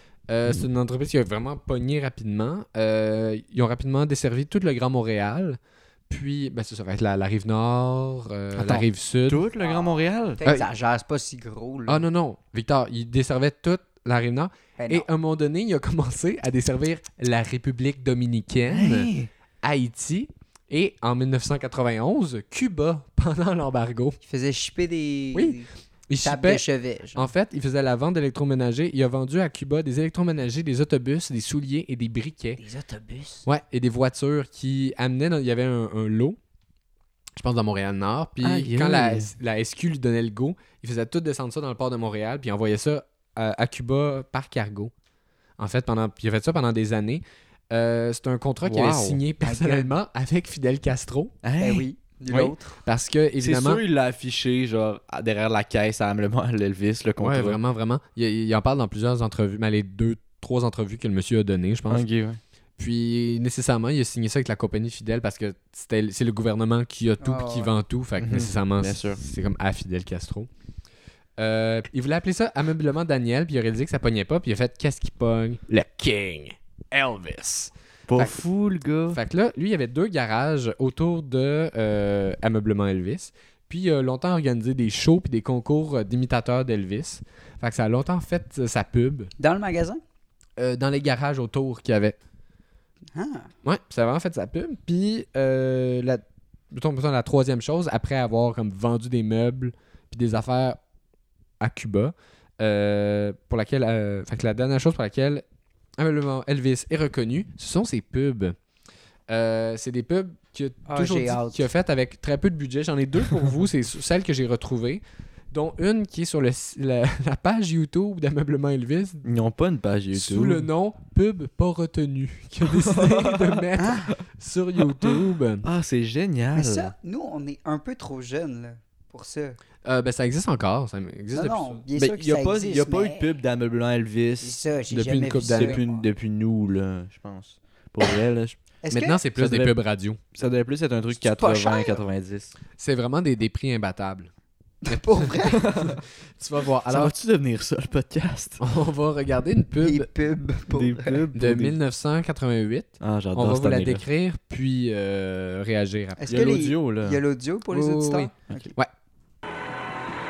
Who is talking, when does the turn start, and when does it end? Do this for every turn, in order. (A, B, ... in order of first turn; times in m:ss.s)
0:00.3-0:05.6 A
0:06.1-0:09.4 A
0:08.5-0:10.4 B
0:09.6-0:12.0 C
0:11.9-0:19.1 A
0:14.8-0:15.1 C
0:18.7-0:19.3 B
0:19.6-0:24.2 A
0:24.2-0:25.7 C
0:26.1-0:26.6 A
0:26.2-0:27.3 C
0:27.1-0:32.6 A
0:32.6-0:33.4 C
0:33.4-0:36.4 A
0:37.4-0:44.9 A
0:38.4-0:39.3 B
0:45.6-0:51.3 A
0:48.6-0:49.2 B
0:49.4-0:49.9 C
0:51.4-0:52.5 B
0:51.6-0:52.7 C
0:52.8-0:53.8 A
0:53.4-0:57.6 B
0:57.2-1:02.0 A
1:01.9-1:02.4 B
1:02.8-1:10.5 A
1:07.2-1:07.7 C
1:08.2-1:09.2 B
1:11.4-1:18.4 A
1:18.1-1:19.2 B
1:19.1-1:29.3 A
1:29.4-1:30.0 C
1:30.6-1:32.2 A
1:33.1-1:33.5 C
1:33.6-1:40.8 A
1:41.6-1:45.4 A
1:46.0-1:48.6 A
1:49.3-1:59.2 A
1:50.9-1:51.6 C
1:59.2-2:00.7 B
2:00.1-2:05.6 A
2:02.7-2:03.6 B
2:03.8-2:04.1 C
2:05.6-2:06.9 B
2:06.5-2:09.6 C
2:09.8-2:11.8 A
2:11.3-2:13.3 C
2:11.9-2:14.6 B
2:14.4-2:16.0 C
2:14.9-2:15.8 A
2:15.5-2:18.6 B
2:18.8-2:19.2 C
2:18.9-2:20.2 A
2:19.4-2:19.8 B
2:20.3-2:22.5 B
2:21.2-2:22.0 C
2:22.8-2:24.3 A
2:24.8-2:25.6 C
2:24.9-2:25.6 A
2:25.6-2:26.0 B
2:26.4-2:27.1 A
2:26.9-2:28.6 B
2:28.6-2:30.1 A
2:29.8-2:31.2 C
2:30.7-2:31.8 B
2:31.3-2:36.2 A
2:33.0-2:34.0 B
2:36.2-2:38.7 C
2:36.3-2:37.2 B
2:37.7-2:38.9 A